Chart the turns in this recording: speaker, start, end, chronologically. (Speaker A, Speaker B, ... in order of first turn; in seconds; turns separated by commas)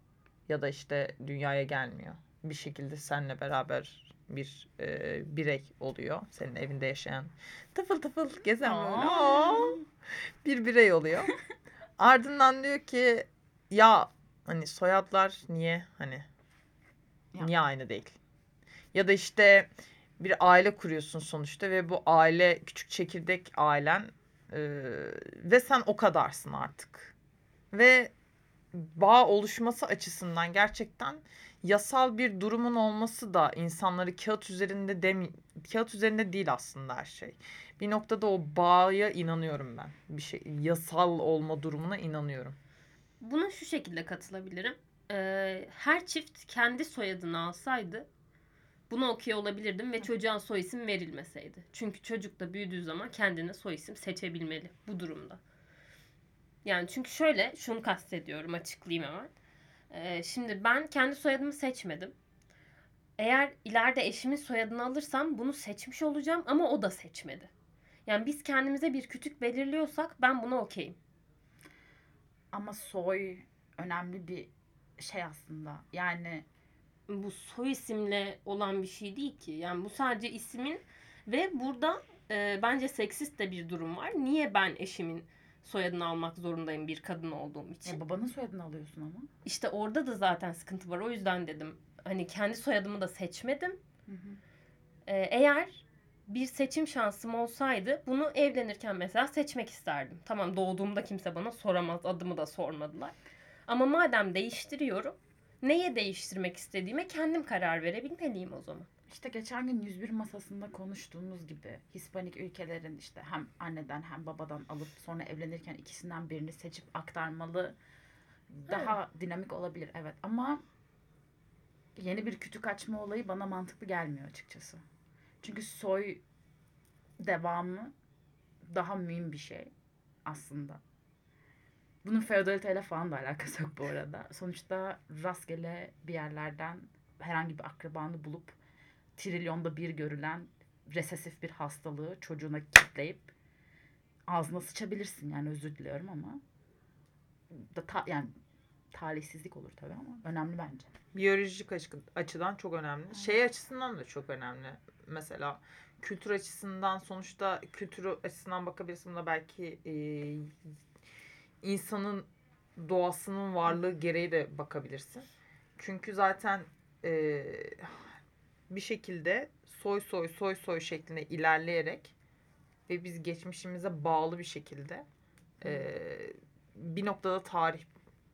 Speaker A: 0.5-9.8, Speaker B: 8.6-9.8, Speaker A: 10.4-11.4, Speaker A: 12.0-16.2, Speaker A: 17.4-18.1, Speaker A: 18.9-27.1, Speaker A: 27.7-28.1, Speaker A: 28.7-42.5, Speaker C: 43.2-48.1, Speaker C: 48.9-55.4, Speaker C: 56.6-59.3, Speaker C: 59.9-62.1, Speaker C: 63.2-67.5, Speaker C: 68.0-71.0, Speaker B: 72.5-76.5, Speaker C: 77.1-88.0, Speaker B: 87.8-89.3, Speaker C: 89.4-93.8, Speaker B: 94.1-94.4, Speaker C: 95.0-103.1, Speaker C: 103.7-108.9, Speaker B: 109.1-117.8, Speaker B: 118.5-120.6, Speaker B: 122.0-124.8, Speaker B: 125.4-126.2, Speaker B: 127.2-127.9, Speaker B: 128.6-129.7, Speaker B: 130.2-130.8, Speaker B: 132.0-138.6, Speaker B: 139.2-143.3, Speaker B: 144.3-146.4, Speaker B: 147.5-148.3, Speaker B: 148.9-150.9, Speaker A: 151.1-160.5, Speaker A: 161.6-165.2, Speaker A: 165.8-168.1, Speaker A: 168.7-172.1, Speaker A: 172.9-175.1, Speaker A: 175.6-177.9, Speaker B: 175.6-175.9